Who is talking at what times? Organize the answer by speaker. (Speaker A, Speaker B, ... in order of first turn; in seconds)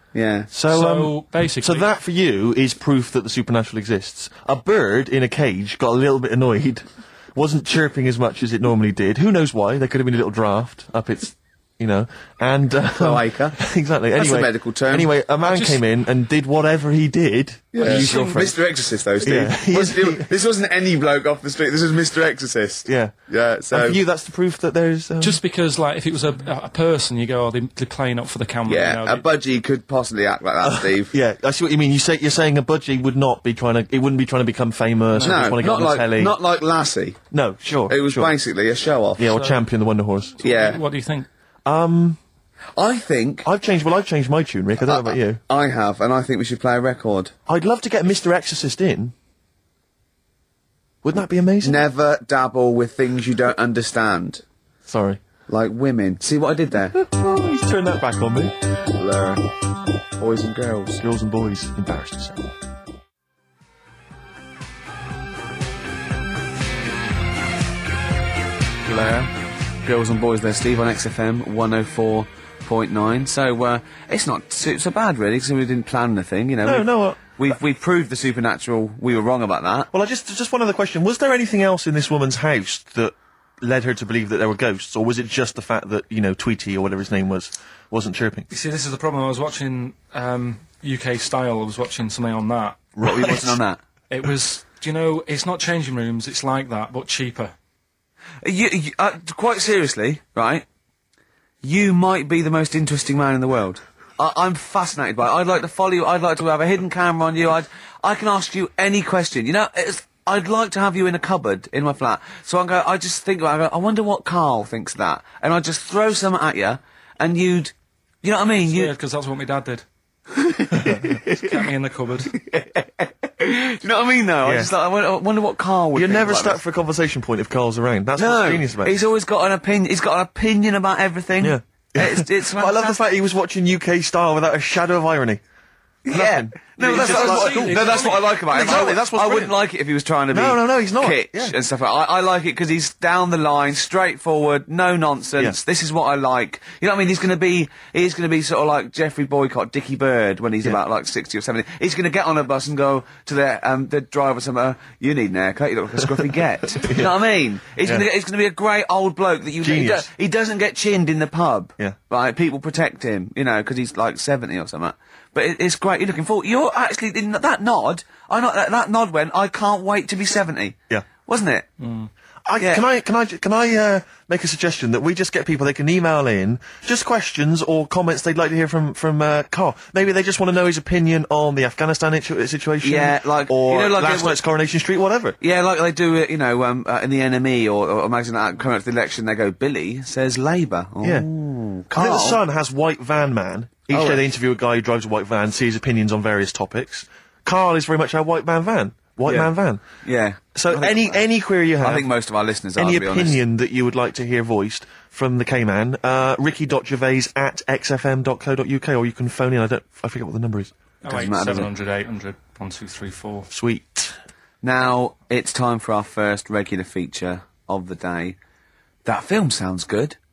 Speaker A: 0.1-0.5, 12.9-13.6, 14.1-15.1, 17.7-24.0, 28.7-31.1, 35.2-37.2, 37.9-39.3, 40.4-40.8, 42.8-43.5, 44.8-47.3, 51.6-54.4, 55.5-57.0, 58.9-59.4, 60.2-61.0, 68.8-69.3, 69.8-79.9, 93.0-93.8, 98.4-100.7, 101.6-118.9, 120.3-121.6, 122.3-126.6, 128.2-133.0, 136.0-171.7, 172.6-172.8, 182.8-184.4, 185.4-192.4, 193.9-194.2, 199.2-201.2, 201.8-203.4, 211.1-211.7, 214.6-218.3, 219.0-220.2
Speaker B: 0.5-18.5, 19.2-20.3, 22.9-23.1, 23.7-25.4, 30.6-36.4, 37.3-38.3, 39.2-40.4, 41.6-42.2, 43.4-45.4, 47.5-49.1, 51.0-51.8, 54.9-55.2, 56.9-58.5, 61.0-62.5, 76.6-77.2, 79.9-88.5, 93.0-93.6, 120.7-121.2, 124.4-124.7, 125.9-129.0, 131.4-135.4, 136.1-139.5, 140.3-141.5, 156.7-157.1, 159.6-160.1, 172.4-185.4, 191.0-191.3, 191.9-199.8, 200.5-202.1, 202.8-210.7, 213.5-214.2
Speaker C: 0.7-1.9, 15.4-15.8, 17.8-18.5, 25.2-29.2, 35.1-35.5, 39.3-39.6, 40.4-41.3, 88.5-92.8, 94.1-97.5, 118.6-119.8, 121.3-122.3, 136.8-138.3, 171.8-172.1, 211.0-213.5